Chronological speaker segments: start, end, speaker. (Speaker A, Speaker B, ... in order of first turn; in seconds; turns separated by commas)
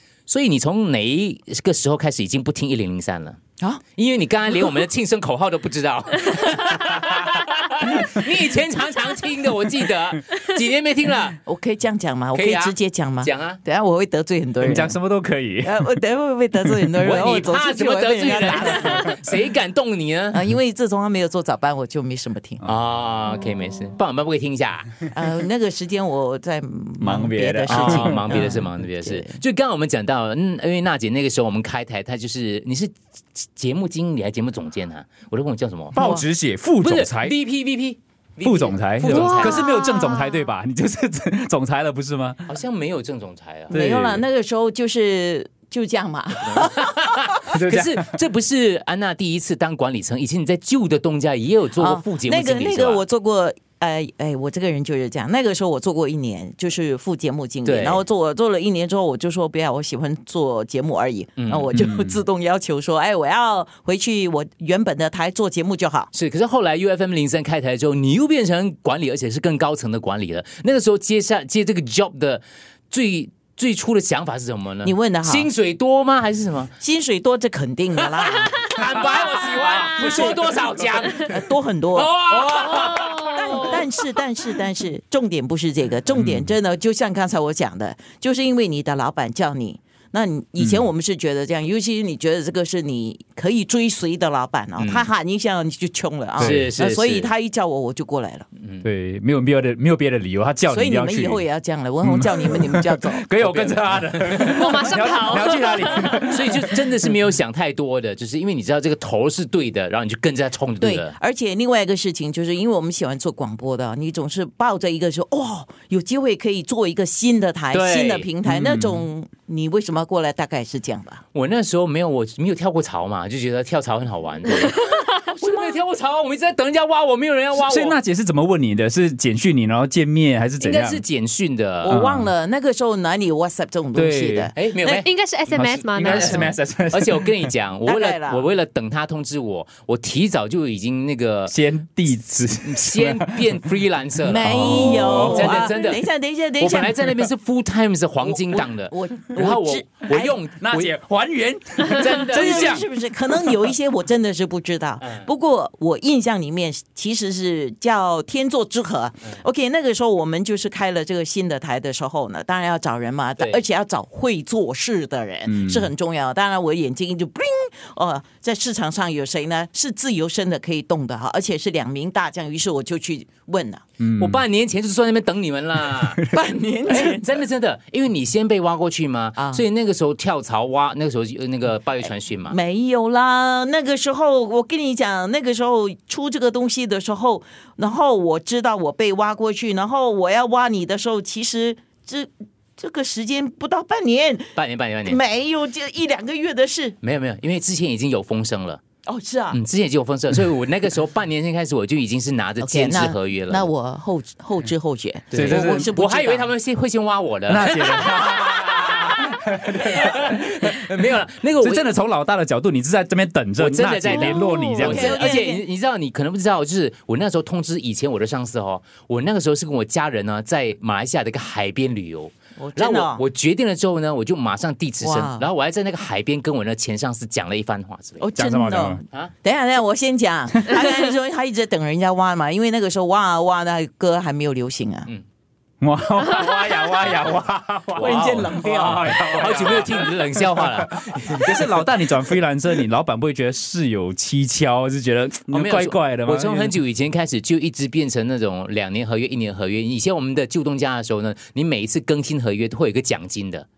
Speaker A: 0.3-3.4, Speaker A: 4.0-11.4, Speaker B: 11.4-15.0, Speaker A: 12.3-13.6, Speaker C: 14.6-15.9, Speaker B: 15.6-19.2, Speaker C: 16.6-17.0, Speaker A: 17.0-20.4, Speaker B: 20.3-22.6, Speaker A: 22.6-25.0, Speaker B: 25.1-29.4, Speaker C: 27.0-28.5, Speaker A: 27.7-36.0, Speaker C: 35.9-37.3, Speaker B: 36.0-36.2, Speaker A: 36.8-39.7, Speaker C: 38.4-42.5, Speaker D: 39.1-40.4, Speaker A: 42.5-43.8, Speaker C: 43.7-44.2, Speaker B: 43.7-47.1, Speaker A: 46.4-53.0, Speaker C: 47.5-48.1, Speaker B: 51.8-66.1, Speaker A: 57.6-58.0, Speaker A: 61.4-61.7, Speaker C: 61.7-62.2, Speaker A: 66.1-76.7, Speaker B: 74.8-75.5, Speaker B: 76.8-78.7, Speaker A: 78.2-83.8, Speaker D: 79.9-80.3, Speaker B: 79.9-80.5, Speaker B: 81.2-82.1, Speaker B: 82.7-98.5, Speaker D: 82.8-83.8, Speaker C: 86.1-86.5, Speaker C: 90.6-90.8, Speaker A: 94.8-95.1, Speaker C: 96.4-96.7, Speaker A: 96.4-97.3, Speaker A: 98.6-98.9, Speaker C: 98.8-101.4, Speaker B: 100.7-103.3, Speaker C: 102.0-107.1, Speaker A: 103.4-104.6, Speaker D: 104.4-106.2, Speaker A: 106.2-111.2, Speaker B: 110.8-121.2, Speaker A: 117.7-118.3, Speaker C: 118.5-119.0, Speaker A: 121.3-128.0, Speaker D: 124.6-125.1, Speaker C: 127.5-131.0, Speaker A: 130.6-132.0, Speaker B: 131.8-134.5, Speaker C: 131.9-132.3, Speaker C: 133.9-134.5, Speaker A: 134.5-135.1, Speaker D: 134.8-136.6, Speaker C: 135.5-137.4, Speaker A: 136.0-141.6, Speaker B: 137.9-138.4, Speaker C: 141.5-143.6, Speaker A: 142.6-146.1, Speaker B: 144.2-147.2, Speaker C: 144.4-145.7, Speaker A: 146.6-150.9, Speaker B: 148.2-150.4, Speaker C: 150.6-153.7, Speaker A: 151.9-152.9, Speaker B: 152.3-173.8, Speaker A: 155.0-155.3, Speaker C: 165.5-165.9, Speaker C: 174.0-174.4, Speaker A: 174.2-176.2, Speaker B: 176.3-177.3, Speaker A: 176.9-182.6, Speaker B: 179.4-179.6, Speaker B: 182.5-197.0, Speaker A: 194.6-195.2, Speaker A: 197.0-198.8, Speaker B: 199.1-199.6, Speaker A: 199.5-203.7, Speaker B: 202.6-206.5, Speaker A: 205.3-211.9, Speaker C: 205.3-205.9, Speaker C: 207.5-210.1, Speaker C: 211.6-215.3, Speaker A: 213.6-228.3, Speaker D: 214.1-214.9, Speaker B: 214.8-215.6, Speaker B: 222.6-223.2, Speaker B: 225.0-225.4, Speaker B: 228.2-235.1, Speaker C: 228.4-229.0, Speaker C: 235.8-246.7, Speaker A: 238.0-241.9, Speaker B: 238.0-239.8, Speaker A: 245.5-253.7